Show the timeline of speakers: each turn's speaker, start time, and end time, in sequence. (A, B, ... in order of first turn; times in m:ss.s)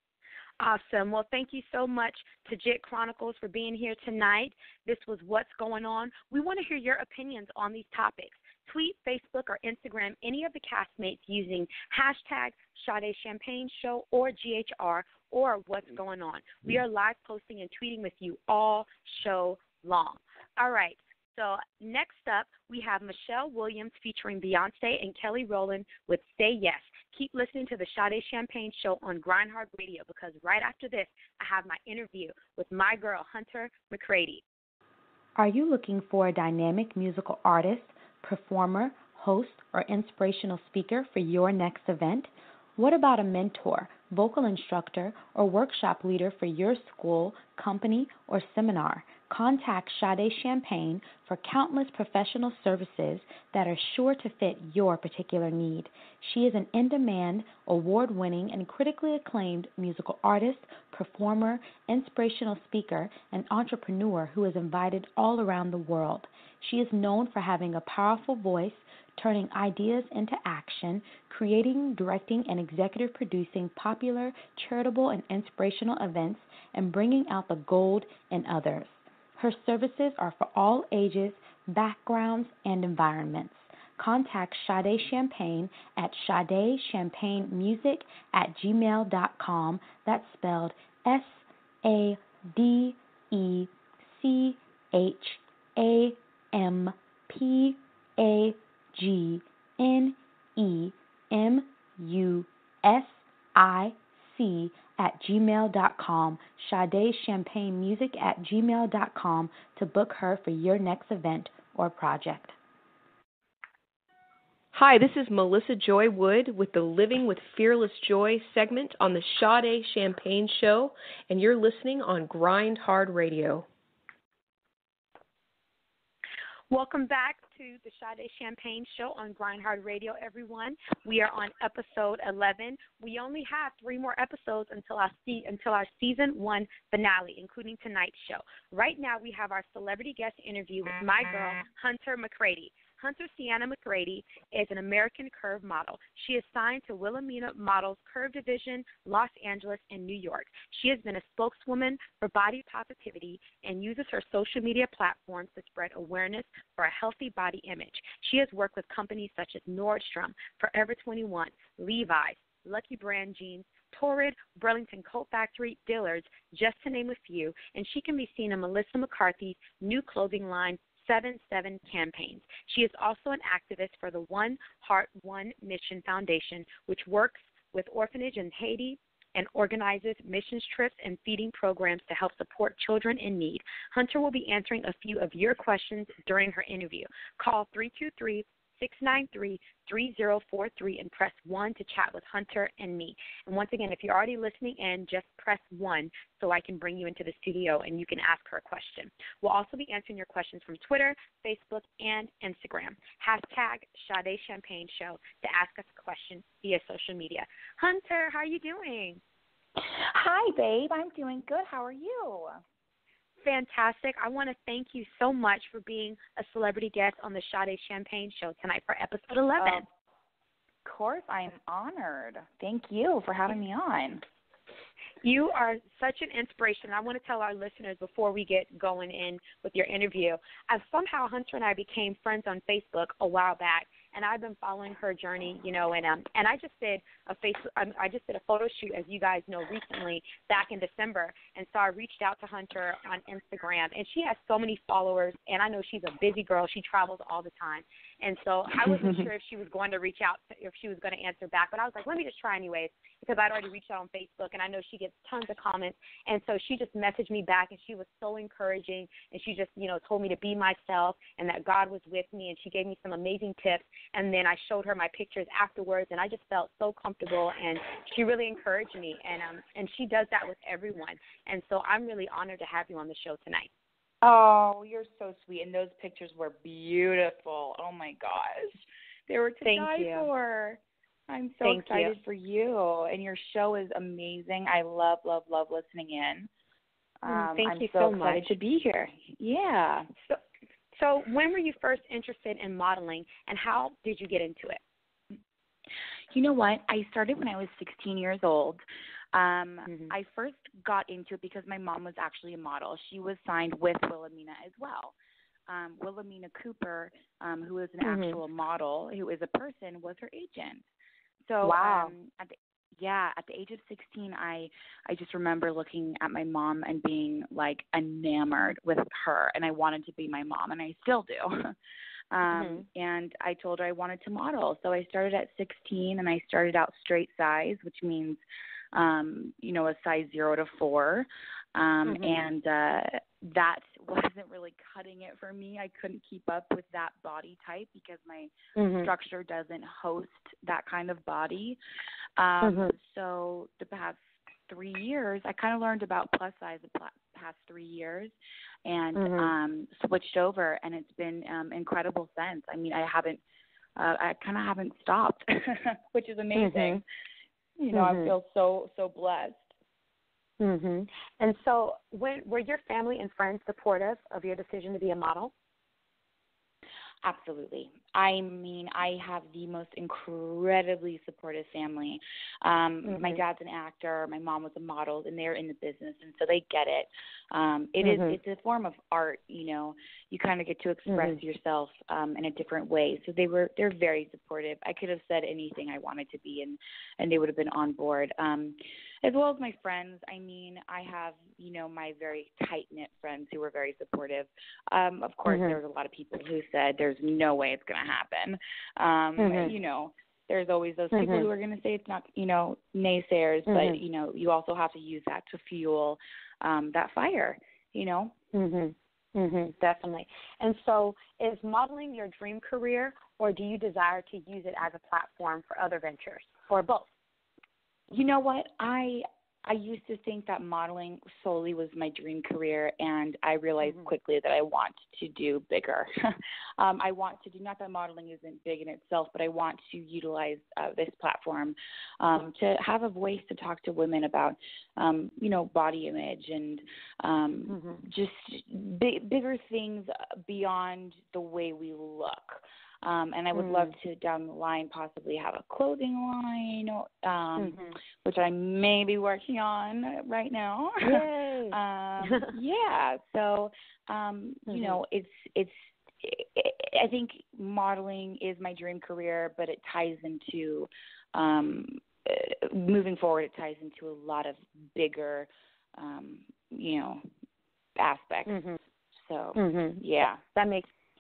0:00.6-0:34.4 A
0:35.4-1:52.6 B
1:54.7-2:03.7 C
2:06.7-3:29.2 A
3:30.1-3:32.6 D
3:33.4-3:39.9 A
3:39.6-3:39.9 D
3:40.8-3:44.2 D
3:45.2-4:33.7 A
4:08.9-4:09.2 D
4:34.2-4:46.5 D
4:39.6-4:40.3 A
4:41.6-4:42.2 A
4:47.2-4:50.1 D
4:47.3-4:48.5 A
4:51.0-4:54.8 A
4:56.3-4:58.8 D
4:59.3-5:05.1 D
4:59.9-5:00.1 A
5:05.7-5:10.8 D
5:08.0-5:08.4 A
5:11.5-5:21.7 D
5:11.6-5:12.1 A
5:22.3-5:28.4 D
5:22.5-5:22.9 A
5:28.9-5:38.5 D
5:32.1-5:32.5 A
5:38.8-5:39.1 A
5:39.0-5:41.8 D
5:42.4-5:48.3 D
5:42.6-5:42.9 A
5:48.9-5:53.4 D
5:49.2-5:49.5 A
5:54.0-5:57.0 D
5:56.5-5:57.0 A
5:57.8-5:59.7 D
5:57.9-5:58.3 A
6:00.6-6:05.5 A
6:07.2-6:48.3 D
6:13.0-6:13.4 A
6:18.0-6:18.4 A
6:21.1-6:21.4 A
6:35.5-6:35.8 A
6:39.4-6:39.7 A
6:41.1-6:41.5 A
6:43.7-6:44.0 A
6:48.5-6:57.1 A
6:58.1-7:06.1 D
7:03.8-7:04.1 A
7:06.8-7:47.2 D
7:17.7-7:18.0 A
7:23.5-7:23.9 A
7:27.6-7:28.0 A
7:31.0-7:32.5 A
7:34.7-7:35.0 A
7:48.0-7:48.6 D
7:48.5-7:48.8 A
7:49.3-7:50.4 D
7:49.6-7:50.0 A
7:50.5-7:50.9 A